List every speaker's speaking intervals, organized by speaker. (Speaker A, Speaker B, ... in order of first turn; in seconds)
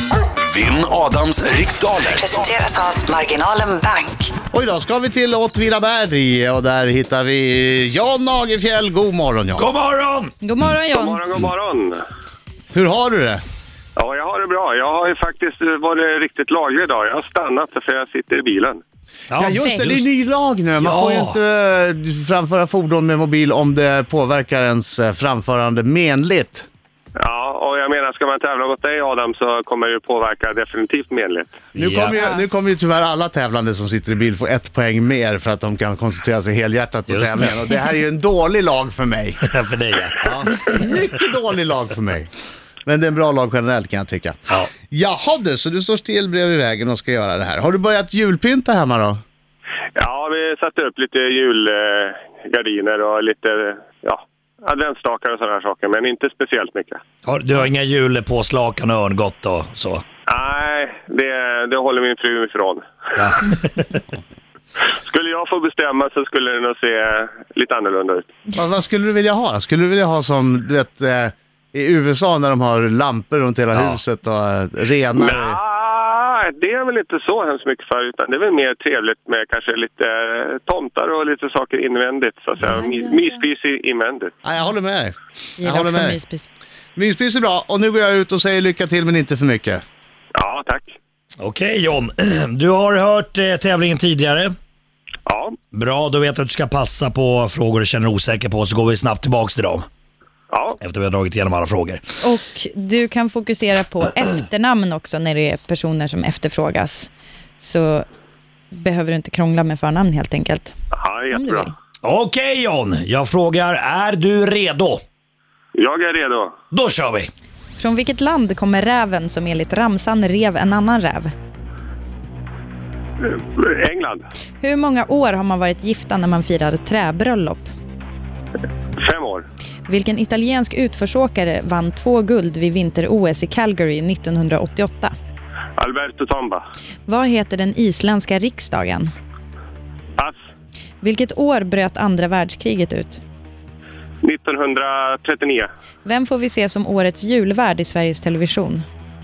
Speaker A: 0.4-2.6
Speaker B: 2.1-4.3
Speaker C: 4.5-9.7, 12.7-13.4, 19.4-26.7, 31.8-39.4, 40.2-42.3, 42.9-49.2, 68.5-75.6, 84.4-86.2, 87.0-89.8
Speaker D: 9.6-10.3, 19.3-20.0, 20.8-21.4, 31.8-32.1, 37.1-37.6, 39.4-40.2, 57.2-60.0, 63.2-64.0, 73.7-74.0, 91.4-94.5, 95.7-99.9, 100.8-102.0, 112.0-115.0, 116.7-117.3
Speaker E: 10.4-11.2, 32.2-32.4, 82.7-83.4, 85.6-86.5, 102.2-108.0, 108.7-110.7, 111.3-111.7, 117.8-121.3, 124.6-127.7, 129.9-135.1, 137.1-139.1, 141.0-143.2, 146.1-148.8
Speaker F: 10.9-12.0, 14.0-18.8, 27.2-31.6, 50.0-57.0, 60.3-62.8, 65.0-68.3, 75.2-84.3, 90.4-90.9, 95.3-95.6, 100.5-100.8, 111.0-111.7, 115.8-116.5, 123.2-124.2, 129.0-129.5, 135.8-136.6, 144.2-145.7